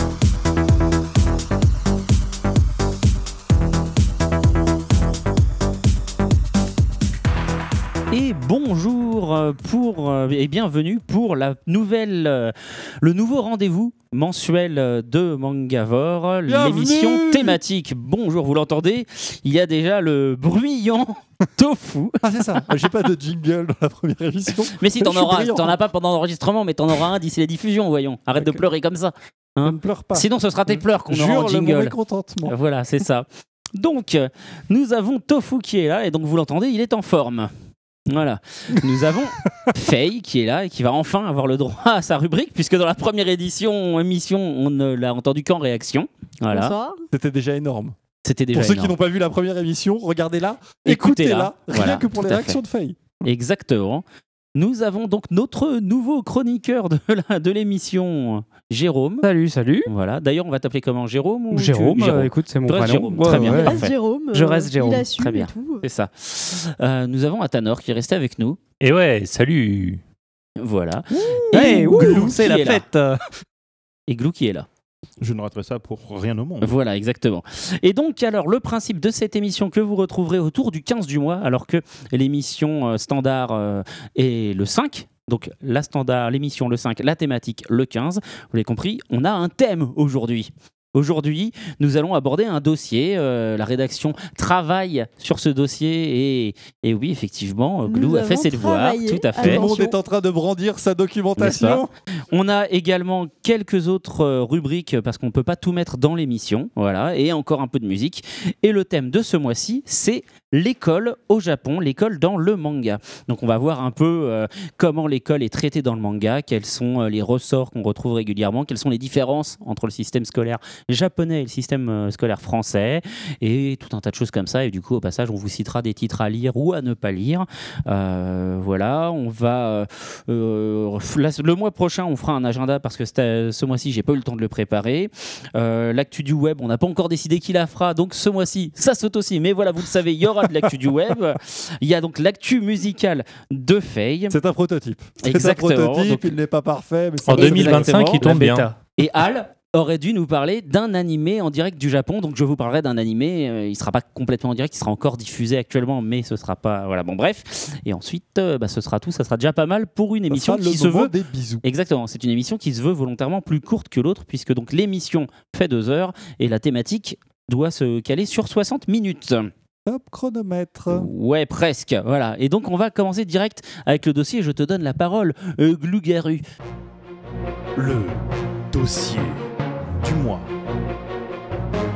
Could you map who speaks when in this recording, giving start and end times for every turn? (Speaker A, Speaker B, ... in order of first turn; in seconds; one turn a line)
Speaker A: 8.1-22.7
Speaker B: 16.5-17.6
Speaker B: 22.2-25.8
Speaker A: 24.7-37.5
Speaker B: 28.4-28.6
Speaker B: 29.6-32.5
Speaker A: 38.1-46.7
Speaker B: 38.7-39.7
Speaker C: 46.5-47.1
Speaker B: 47.1-48.0
Speaker A: 48.2-49.0
Speaker B: 48.5-53.1
Speaker A: 50.9-52.6
Speaker A: 53.2-54.0
Speaker A: 54.6-59.3
Speaker D: 59.2-59.9
Speaker A: 59.9-63.9
Speaker D: 61.5-65.1
Speaker C: 63.3-65.8
Speaker A: 65.2-68.6
Speaker E: 68.8-70.0
Speaker A: 70.6-72.9
Speaker D: 71.5-73.2
Speaker C: 71.5-72.0
Speaker A: 74.1-74.7
Speaker F: 75.2-76.8
Speaker A: 76.6-99.7
Speaker C: 97.9-100.0
Speaker B: 99.4-101.9
Speaker A: 101.4-144.4
Speaker B: 144.3-148.1
Speaker A: 145.2-146.4
Speaker E: 147.3-148.7
Speaker A: 147.3-169.5
Speaker D: 148.2-148.8
Speaker B: 160.3-161.6
Speaker B: 169.9-171.1
Speaker A: 170.9-176.4
Speaker F: 177.8-179.5
Speaker F: 180.0-180.5